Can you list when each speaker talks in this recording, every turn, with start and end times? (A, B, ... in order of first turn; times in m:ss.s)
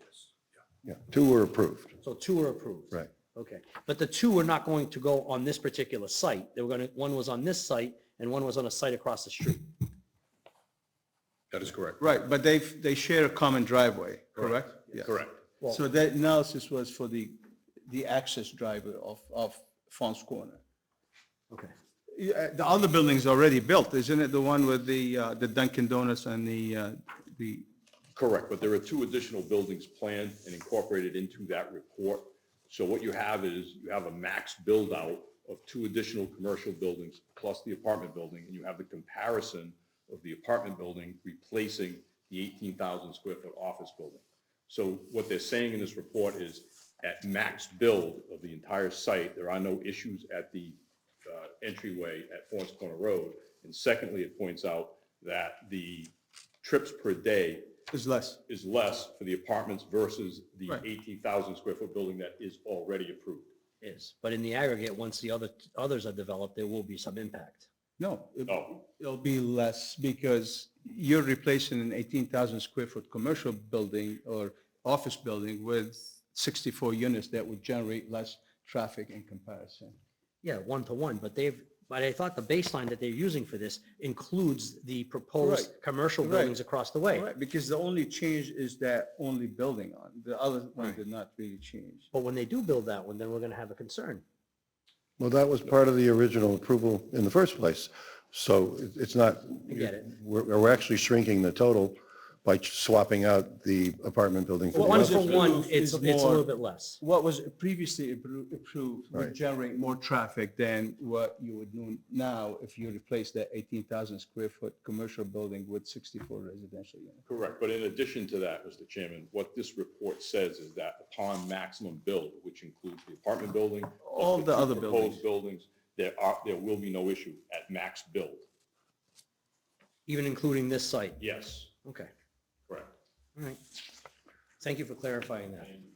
0:00.8-0:01.9 A
0:02.0-0:09.8 B
0:11.5-0:12.0 C
0:12.0-0:15.1 D
0:14.9-0:15.4 C
0:15.6-0:20.6 D
0:22.1-0:27.6 D
0:28.1-0:57.7 C
0:57.9-0:58.4 D
0:58.5-1:03.5 C
1:03.8-1:07.7 B
1:08.0-1:20.0 D
1:08.5-1:08.7 C
1:20.4-1:27.3 B
1:25.4-1:26.6 D
1:27.1-1:32.1 D
1:32.1-1:34.2 B
1:35.2-1:45.3 A
1:39.7-1:40.1 B
1:44.7-1:46.5 D
1:44.7-1:47.0 B
1:47.0-1:57.2 D
1:57.2-2:08.4 C
2:04.0-2:05.2 D
2:10.1-2:11.2 B
2:11.2-2:11.7 C
2:11.8-2:12.1 B
2:13.4-2:13.8 B
2:14.6-2:15.8 B